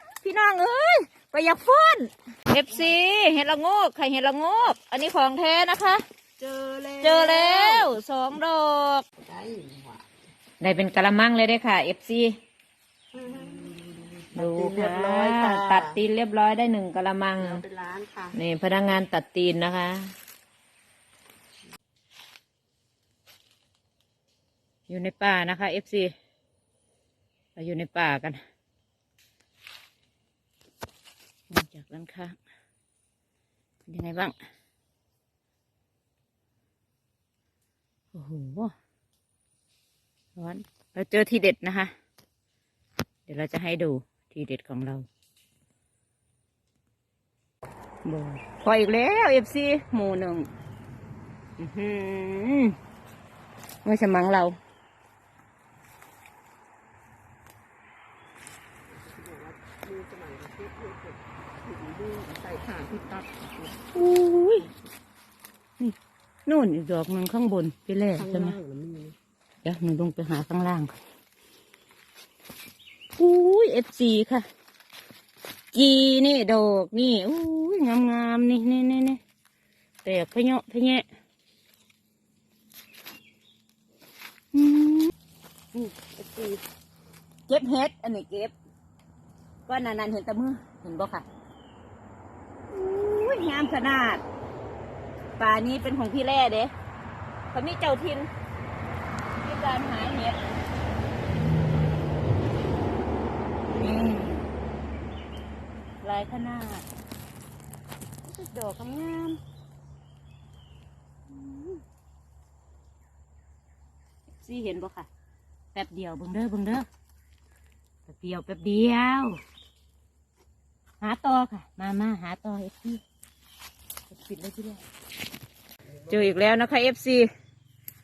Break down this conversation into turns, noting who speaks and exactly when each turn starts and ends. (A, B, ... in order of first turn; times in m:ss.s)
0:00.2-0:06.0 A
0:06.4-0:07.9 B
0:07.0-0:09.0 A
0:09.2-0:10.0 B
0:10.6-0:12.4 A
0:13.1-0:16.0 B
0:14.4-0:17.6 A
0:17.4-0:18.4 B
0:18.4-0:20.1 A
0:24.9-0:26.1 A
0:27.6-0:28.4 A
0:31.5-0:32.4 A
0:33.9-0:34.3 A
0:38.1-0:38.7 A
0:40.4-0:41.9 A
0:43.3-0:45.1 A
0:48.0-0:50.5 A
0:51.6-0:52.8 A
0:53.8-0:54.6 A
0:58.9-1:03.8 B
1:03.9-1:04.7 A
1:06.5-1:08.6 A
1:08.2-1:09.2 B
1:09.6-1:11.0 A
1:13.2-1:14.5 A
1:15.7-1:19.2 A
1:20.0-1:21.1 A
1:24.5-1:25.1 A
1:25.8-1:26.6 B
1:27.5-1:28.5 A
1:29.7-1:31.2 A
1:32.7-1:34.2 A
1:35.4-1:36.7 A
1:37.5-1:38.3 A
1:39.3-1:40.4 A
1:43.7-1:44.4 A
1:46.0-1:46.9 A
1:48.2-1:49.4 A
1:51.3-1:51.8 A
1:54.4-1:55.1 A
1:55.7-1:56.9 A
1:58.1-1:59.4 A
2:01.0-2:03.0 A
2:04.1-2:04.8 A
2:05.9-2:06.4 B
2:06.1-2:07.3 A